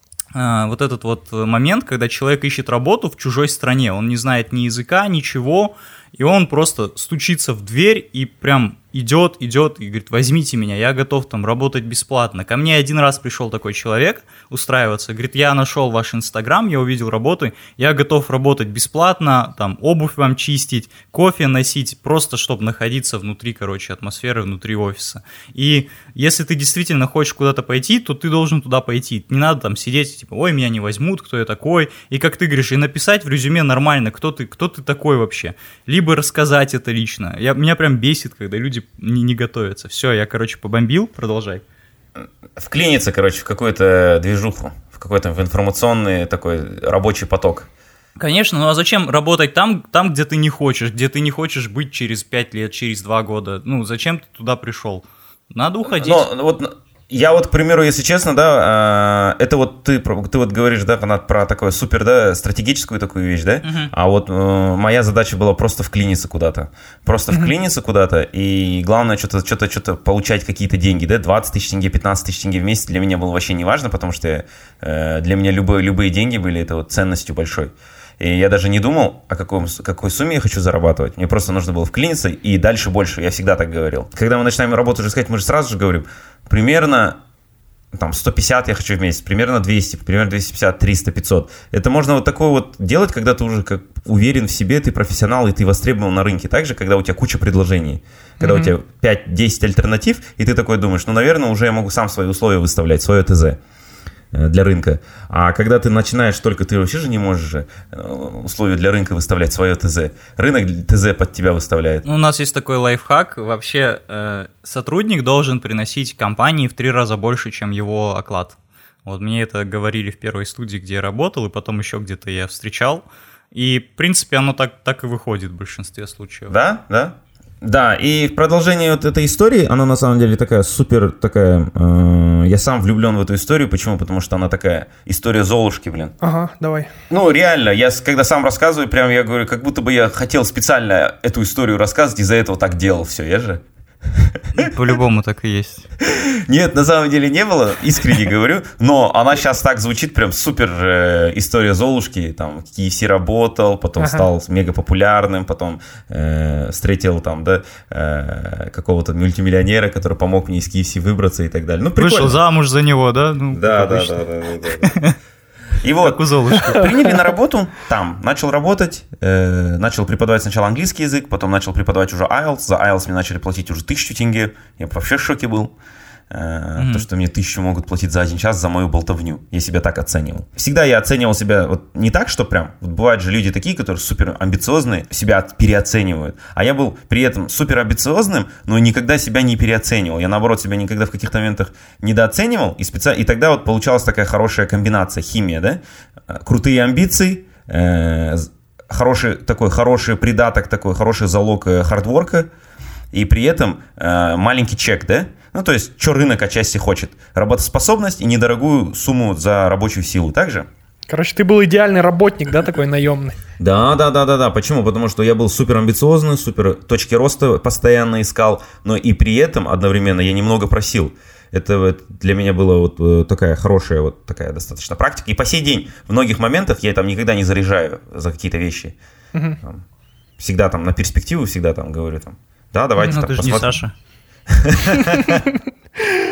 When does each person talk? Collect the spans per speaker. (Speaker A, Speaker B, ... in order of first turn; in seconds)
Speaker A: 0.3-41.6, 48.2-56.3, 63.6-63.9, 112.0-126.5, 144.6-145.9, 162.0-165.2, 166.0-166.9, 176.8-177.1, 233.0-233.9
Speaker B: 42.6-47.7, 55.9-87.2, 87.9-103.6, 104.3-112.1, 126.5-136.1, 137.1-144.7, 146.0-162.4, 163.5-164.9, 165.8-175.7, 176.3-202.5, 203.1-210.7, 213.6-228.9, 230.4-233.8, 234.5-235.5
Speaker C: 98.4-98.7, 136.2-136.9, 154.0-154.3, 211.1-213.4